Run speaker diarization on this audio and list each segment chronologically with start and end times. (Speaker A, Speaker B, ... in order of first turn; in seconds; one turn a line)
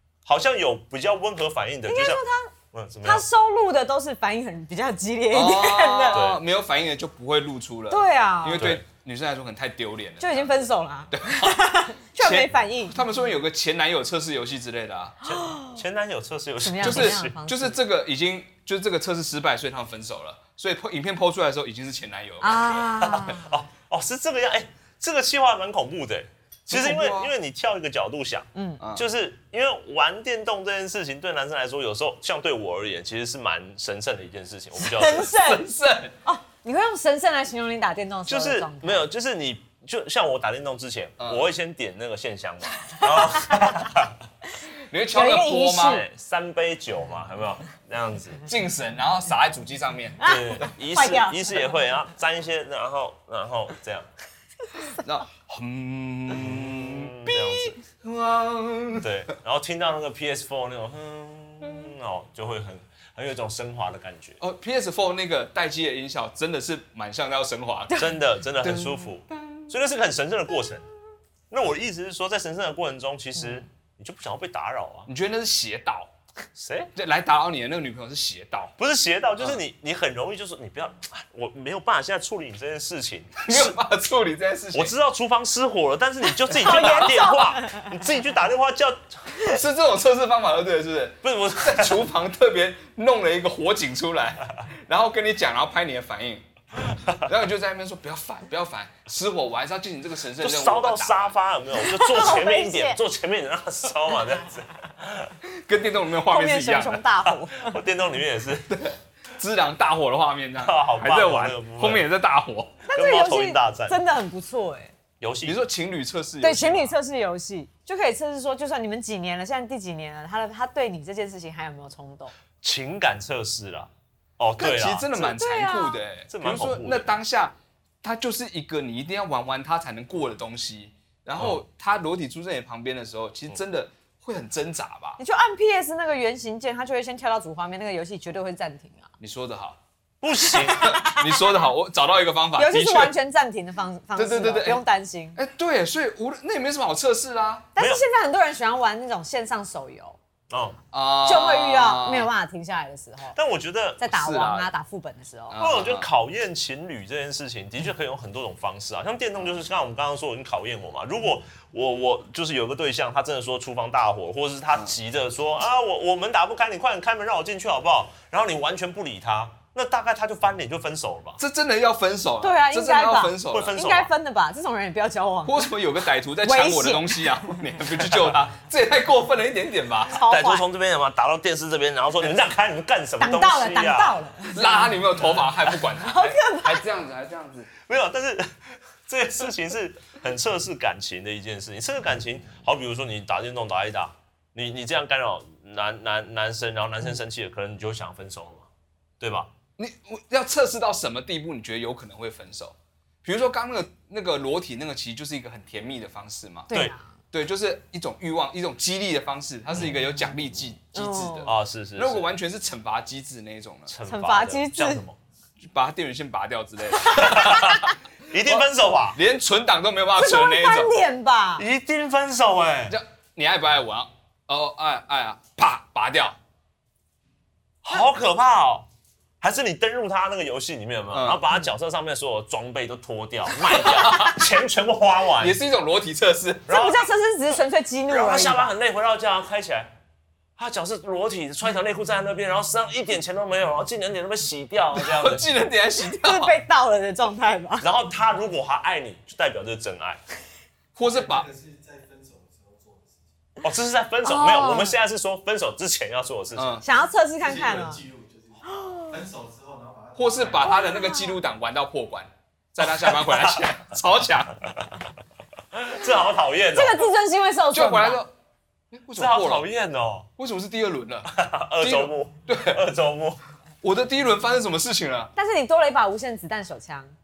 Speaker A: 0.3-2.2
Speaker B: 1.9-2.5
Speaker A: 2.7-3.3
Speaker B: 3.0-6.2
Speaker C: 5.3-10.6
Speaker A: 6.1-6.4
Speaker B: 7.9-8.7
Speaker B: 10.2-13.0
Speaker C: 11.1-11.7
Speaker C: 12.2-15.2
Speaker A: 15.2-17.4
Speaker B: 15.3-15.8
Speaker B: 16.6-17.8
Speaker C: 16.8-22.8
Speaker B: 22.4-23.5
Speaker A: 23.0-35.3
Speaker C: 26.7-27.3
Speaker B: 28.6-28.8
Speaker C: 28.8-29.1
Speaker B: 34.8-35.6
Speaker C: 35.2-36.1
Speaker B: 36.2-39.0
Speaker A: 38.3-44.2
Speaker B: 42.9-43.5
Speaker C: 44.9-46.0
Speaker B: 45.1-46.0
Speaker A: 45.9-48.4
Speaker C: 48.5-50.2
Speaker B: 50.2-51.4
Speaker A: 50.2-54.1
Speaker C: 55.0-57.4
Speaker A: 56.3-57.8
Speaker B: 57.3-57.8
Speaker C: 57.9-59.1
Speaker A: 59.0-64.4
Speaker C: 64.4-69.6
Speaker A: 68.0-70.9
Speaker A: 71.5-75.1
Speaker C: 75.1-76.1
Speaker A: 76.6-76.9
Speaker C: 77.0-78.8
Speaker A: 78.8-83.8
Speaker C: 83.4-84.9
Speaker A: 84.7-89.6
Speaker B: 86.5-88.0
Speaker C: 86.8-87.2
Speaker C: 89.5-96.5
Speaker A: 91.2-92.1
Speaker C: 97.2-101.3
Speaker A: 100.4-105.3
Speaker B: 101.8-103.0
Speaker C: 105.5-107.0
Speaker B: 106.3-107.8
Speaker A: 107.3-108.8
Speaker C: 108.7-112.8
Speaker A: 110.6-112.0
Speaker B: 112.9-114.9
Speaker A: 112.9-114.0
Speaker A: 115.2-115.6
Speaker C: 115.4-117.0
Speaker B: 116.4-122.3
Speaker A: 122.6-125.4
Speaker C: 124.6-135.2
Speaker B: 125.4-126.0
Speaker A: 126.3-127.2
Speaker B: 135.2-139.1
Speaker C: 139.2-139.8
Speaker A: 140.2-141.0
Speaker B: 140.5-141.5
Speaker C: 140.8-143.2
Speaker B: 142.6-145.4
Speaker C: 144.2-144.8
Speaker C: 145.4-147.7
Speaker B: 147.8-150.2
Speaker A: 147.8-148.0
Speaker A: 150.5-150.8
Speaker C: 150.9-152.3
Speaker B: 151.3-153.4
Speaker A: 153.3-154.1
Speaker B: 154.0-155.6
Speaker C: 154.1-154.7
Speaker C: 155.5-156.1
Speaker A: 155.6-171.4
Speaker C: 171.4-173.8
Speaker B: 172.4-175.7
Speaker A: 173.5-174.1
Speaker C: 175.5-180.2
Speaker B: 176.4-177.4
Speaker B: 180.1-180.6
Speaker A: 180.1-184.2
Speaker B: 183.2-185.3
Speaker C: 184.5-187.7
Speaker B: 186.0-186.8
Speaker A: 187.8-198.7
Speaker A: 199.2-199.5
Speaker C: 199.8-206.7
Speaker B: 206.7-207.1
Speaker C: 207.3-213.9
Speaker B: 210.9-211.5
Speaker A: 211.4-212.3
Speaker A: 213.9-215.2
Speaker B: 214.1-215.0
Speaker C: 215.6-217.9
Speaker A: 217.1-219.2
Speaker C: 218.5-220.9
Speaker B: 220.2-221.7
Speaker A: 221.6-223.0
Speaker C: 222.9-226.4
Speaker A: 227.8-228.9
Speaker A: 229.4-235.6
Speaker C: 231.1-231.4
Speaker C: 233.7-234.4
Speaker C: 235.4-236.7
Speaker A: 236.7-237.1
Speaker B: 236.7-238.7
Speaker A: 238.1-239.9
Speaker A: 240.6-245.5
Speaker C: 244.9-246.6
Speaker B: 246.1-247.9
Speaker A: 247.8-250.2
Speaker C: 251.0-251.5
Speaker D: 251.0-253.2
Speaker A: 253.6-256.8
Speaker B: 254.2-255.0
Speaker C: 256.6-256.9
Speaker B: 256.8-258.0
Speaker D: 257.5-260.8
Speaker B: 258.7-259.2
Speaker C: 260.2-264.6
Speaker B: 260.7-261.4
Speaker A: 262.8-263.6
Speaker A: 264.7-265.0
Speaker A: 265.7-267.1
Speaker B: 266.7-268.2
Speaker C: 267.7-268.3
Speaker C: 268.9-269.7
Speaker A: 269.1-270.3
Speaker C: 270.4-272.8
Speaker A: 271.3-273.4
Speaker C: 273.8-275.3
Speaker B: 275.4-277.1